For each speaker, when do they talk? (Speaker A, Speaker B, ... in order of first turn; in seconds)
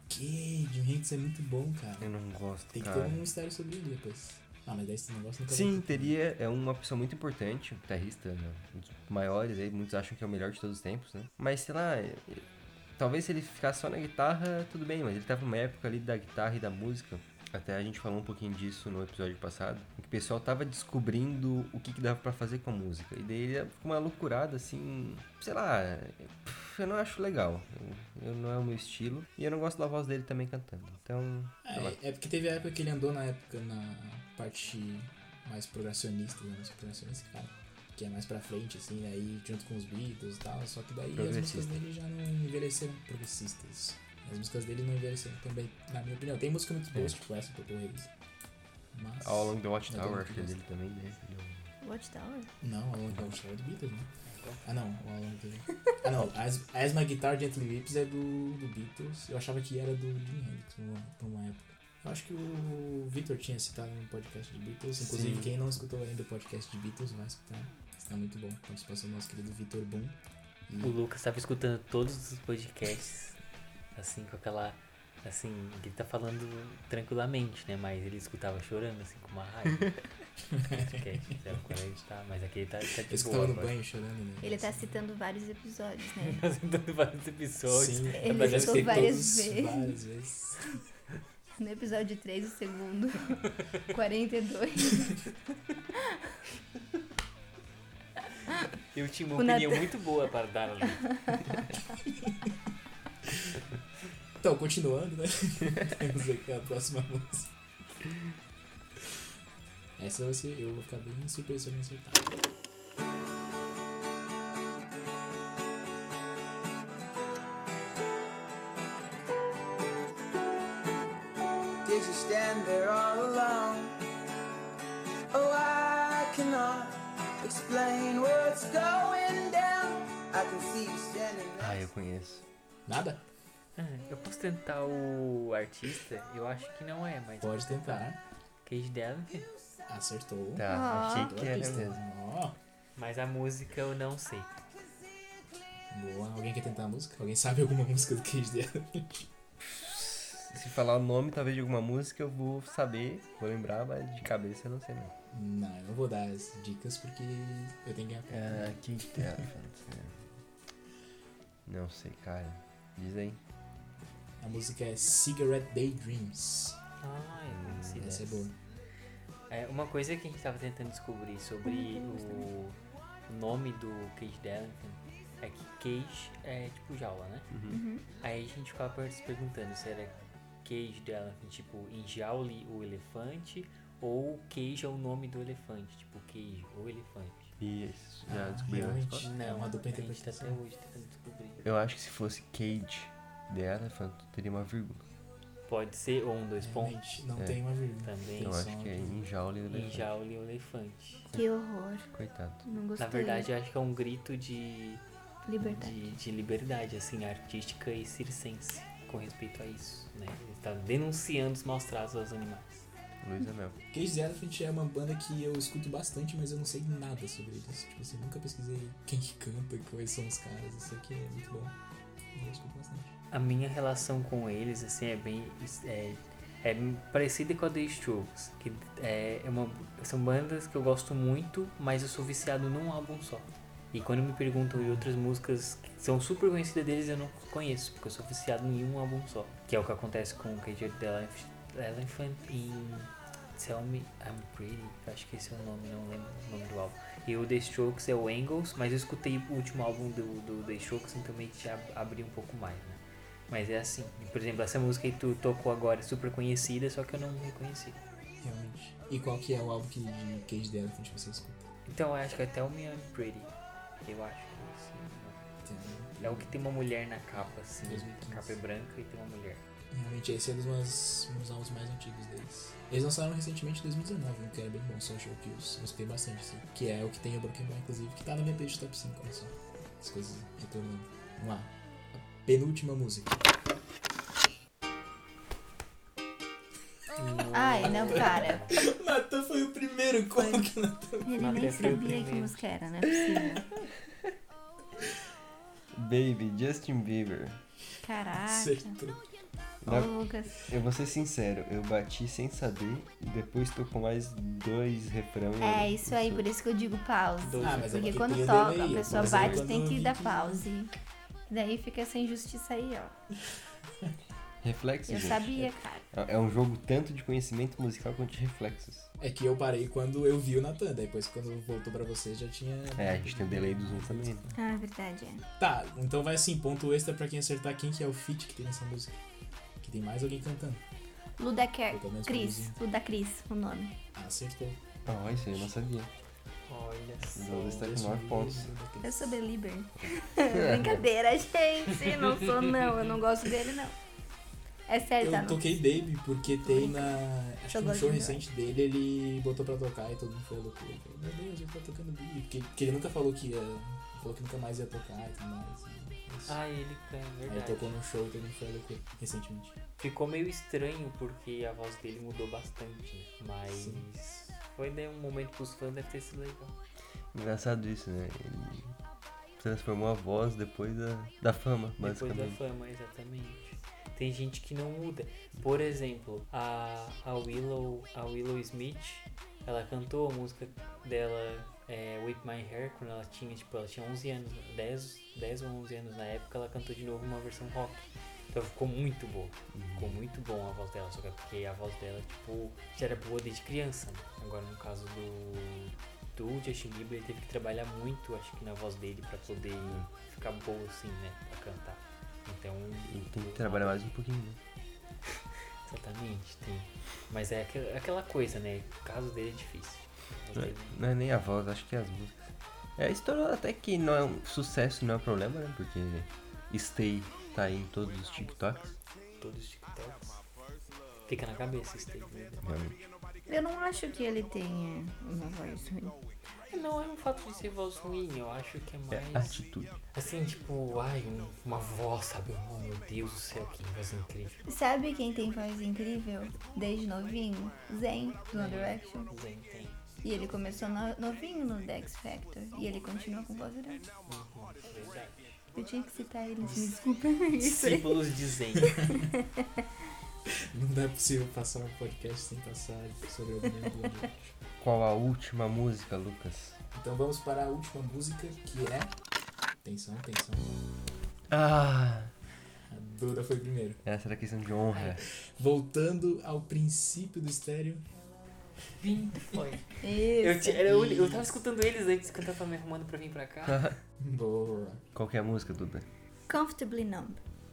Speaker A: 0.1-2.1, 2.7-6.2, 31.6-48.1, 48.9-50.6, 52.6-54.1, 54.6-70.2, 70.7-71.0, 80.5-81.0, 83.1-84.8, 87.7-90.6, 104.4-107.5, 110.0-112.4, 132.9-133.2, 137.4-138.2, 139.9-142.6, 145.9-149.3, 155.3-159.5, 164.4-166.8, 168.0-168.6, 188.3-190.6, 196.6-199.2, 213.9-221.8, 222.3-223.1, 258.4-261.7, 265.6-266.5, 267.8-268.6, 269.9-283.4, 287.8-292.2, 298.4-299.2, 307.6-310.7, 319.2-324.6, 325.6-329.1, 329.8-330.8, 331.9-332.8, 334.1-334.9, 337.7-339.4, 345.2-356.6, 357.5-359.8, 363.7-364.1, 450.7-454.4, 456.9-459.1, 459.8-460.8, 462.9-464.0, 465.2-468.0, 470.9-471.4, 474.2-475.0
Speaker B: 2.0-3.2, 5.5-12.5, 13.0-32.0, 41.1-41.8, 49.2-51.7, 65.0-65.5, 131.6-132.4, 140.6-142.0, 149.6-155.1, 158.3-160.2, 161.7-163.4, 167.5-168.2, 177.5-177.8, 187.6-189.2, 191.6-195.0, 198.4-200.1, 202.2-202.7, 213.2-213.8, 295.9-297.6, 299.8-300.1, 300.7-306.4, 309.1-309.6, 314.6-319.1, 323.0-324.4, 335.1-336.1, 337.4-338.7, 340.0-341.0, 367.3-369.0, 369.6-372.6, 389.7-390.2, 399.8-400.1, 403.1-404.6, 410.6-418.9, 422.6-423.0, 429.1-429.9, 454.8-456.8, 461.5-462.3, 464.1-465.2, 473.7-473.9, 475.1-476.1
Speaker C: 51.8-52.5, 84.4-86.4, 88.2-89.9, 91.6-95.3, 99.4-99.9, 101.1-101.6, 140.7-141.3, 171.7-172.5, 177.7-178.0, 201.3-202.1, 202.7-203.5, 205.5-206.0, 287.5-288.7, 290.4-290.7, 291.2-293.7, 298.0-298.9, 299.9-300.6, 305.6-310.9, 311.5-313.1, 315.1-316.1, 324.6-325.4, 331.4-333.9, 339.0-343.9, 344.9-345.6, 346.7-347.2, 347.7-348.4, 423.5-426.2, 434.7-439.3, 440.2-444.1, 445.8-448.3, 449.0-449.6, 470.0-470.9, 476.5-477.4
Speaker D: 54.3-54.6, 70.8-73.4, 74.0-79.9, 80.7-83.8, 86.2-89.2, 98.9-101.1, 133.8-138.1, 138.6-139.5, 143.0-144.5, 167.0-168.5, 169.5-177.5, 178.2-187.5, 189.2-191.7, 195.7-197.0, 198.0-198.6, 199.7-201.3, 203.0-205.0, 205.6-212.9, 223.3-258.0, 261.9-263.5, 264.0-265.4, 266.2-269.6, 287.2-288.8, 291.4-292.6, 307.4-308.5, 336.7-337.9, 356.5-358.0, 360.0-366.8, 372.0-404.1, 405.9-411.0, 419.4-420.4, 421.3-422.7, 426.7-429.6, 430.1-434.6, 438.5-440.0, 444.3-445.6, 446.6-449.1, 469.0-473.9
Speaker E: 121.8-124.0, 125.3-131.9